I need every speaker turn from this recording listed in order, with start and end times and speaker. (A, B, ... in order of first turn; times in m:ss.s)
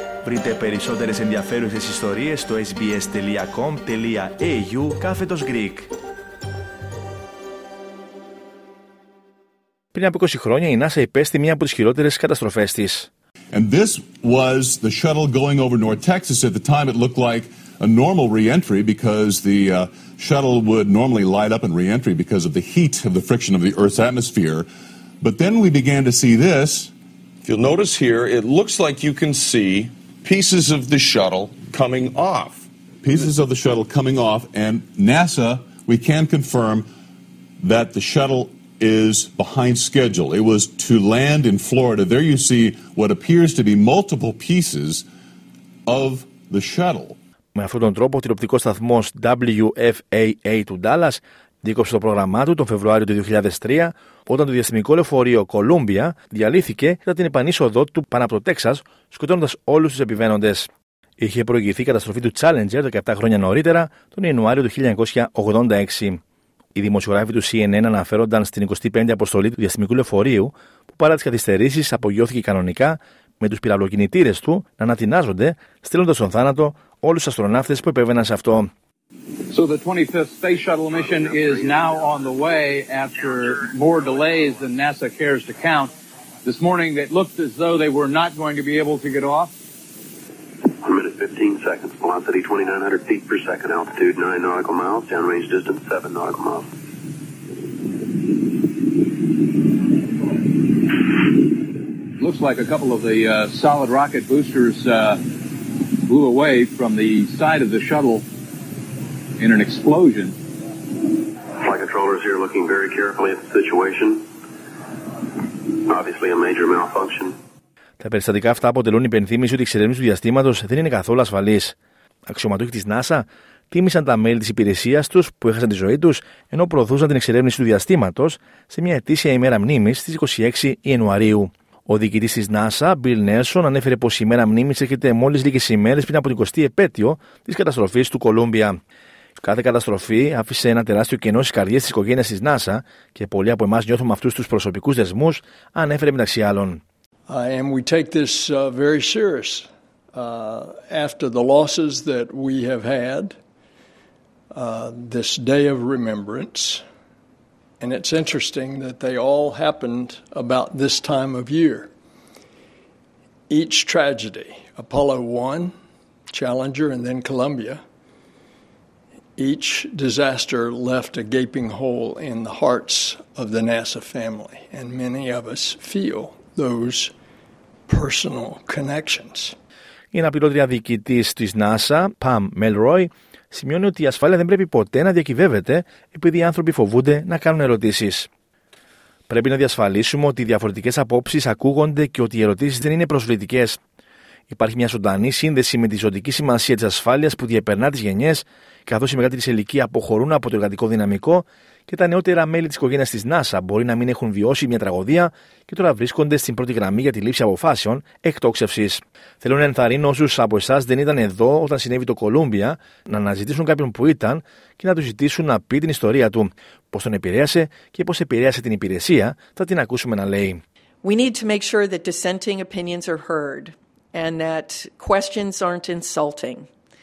0:00.2-0:05.9 A
0:09.9-0:13.1 A
0:13.5-0:24.6 B
0:25.2-0:26.9 B
0:27.4-0:32.6 C
0:33.0-0:36.8 B
0:37.6-0:45.0 B
0:45.9-0:47.2 B
0:47.5-1:06.2 A
1:06.7-1:18.7 A
1:19.5-1:25.9 D
1:20.5-1:24.2 E
1:26.4-1:29.5 D
1:30.6-1:36.7 E
1:42.2-1:45.2 D
1:46.0-1:48.2 D
1:49.4-1:50.3 D
1:51.5-1:54.2 E
1:55.4-1:57.4 E
1:58.0-2:01.8 A
2:02.3-2:18.8 A
2:19.4-2:26.8 A
2:27.3-2:33.3 F
2:34.5-2:36.8 F
2:37.8-2:41.9 F
2:43.5-2:45.7 F
2:46.3-2:47.8 F
2:49.4-2:57.1 F
2:57.9-2:59.5 F
3:00.1-3:08.3 A
3:09.3-3:13.8 A
3:14.5-3:40.6 A
3:41.0-3:46.7 G